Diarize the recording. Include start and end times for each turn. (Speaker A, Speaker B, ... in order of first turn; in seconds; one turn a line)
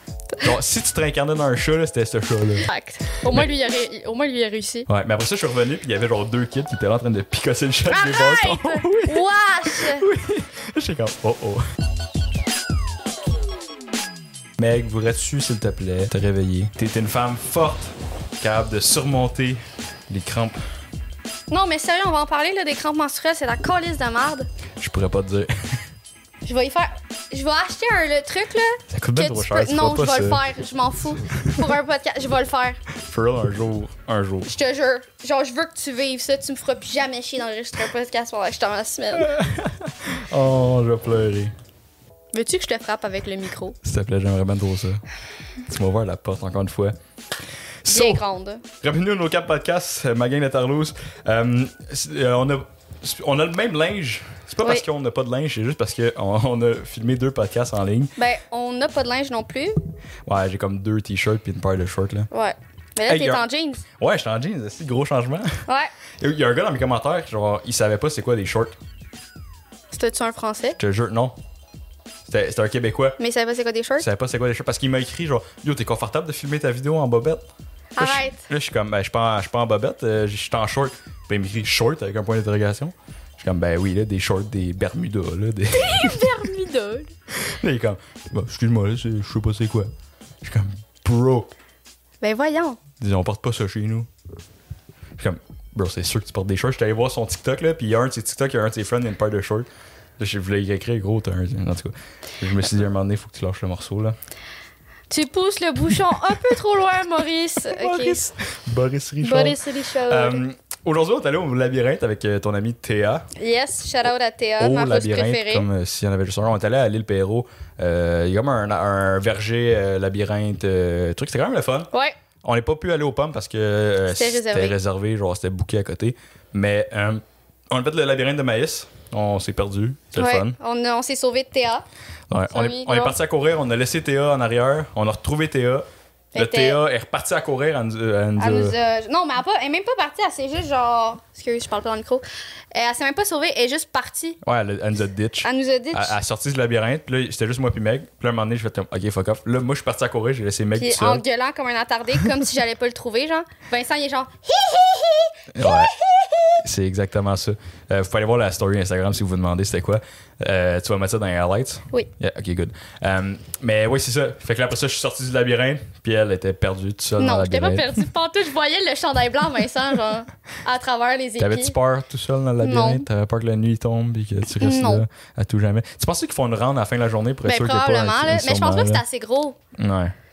Speaker A: 0.4-2.7
Speaker B: 2.6-4.9
Speaker A: 4.9-11.6
Speaker B: 7.9-10.1
Speaker A: 14.6-20.6
Speaker B: 21.5-24.5
Speaker A: 24.8-25.8
Speaker B: 26.4-32.8
Speaker A: 28.9-30.4
Speaker A: 31.2-31.7
Speaker A: 32.9-34.5
Speaker B: 34.5-39.3
Speaker A: 39.1-41.5
Speaker B: 42.3-43.8
Speaker A: 43.8-45.0
Speaker A: 45.6-47.0
Speaker A: 47.8-48.2
Speaker B: 47.9-48.6
Speaker A: 48.8-58.2
Speaker B: 58.2-59.8
Speaker A: 60.3-62.3
Speaker B: 62.3-63.8
Speaker A: 63.0-63.5
Speaker A: 64.0-65.7
Speaker B: 65.7-65.9
Speaker A: 66.2-68.8
Speaker B: 69.9-70.8
Speaker A: 70.8-71.4
Speaker A: 72.3-73.2
Speaker B: 73.2-74.1
Speaker A: 74.0-86.3
Speaker B: 78.0-78.4
Speaker B: 85.7-87.1
Speaker A: 87.3-89.9
Speaker A: 90.4-91.5
Speaker B: 92.2-92.8
Speaker A: 93.0-94.1
Speaker A: 95.2-104.2
Speaker B: 105.1-108.2
Speaker A: 107.6-113.3
Speaker B: 109.2-110.4
Speaker B: 113.3-115.7
Speaker A: 114.6-121.9
Speaker A: 122.4-130.6
Speaker B: 124.1-124.8
Speaker B: 130.2-131.8
Speaker A: 132.3-138.8
Speaker B: 132.5-133.2
Speaker B: 136.3-136.8
Speaker B: 138.4-144.4
Speaker A: 144.4-151.2
Speaker B: 145.4-146.2
Speaker B: 150.8-156.5
Speaker A: 155.5-155.9
Speaker A: 156.6-168.1
Speaker B: 167.2-171.8
Speaker A: 171.4-179.0
Speaker B: 172.6-173.1
Speaker B: 174.6-175.1
Speaker B: 177.4-179.6
Speaker A: 179.8-180.1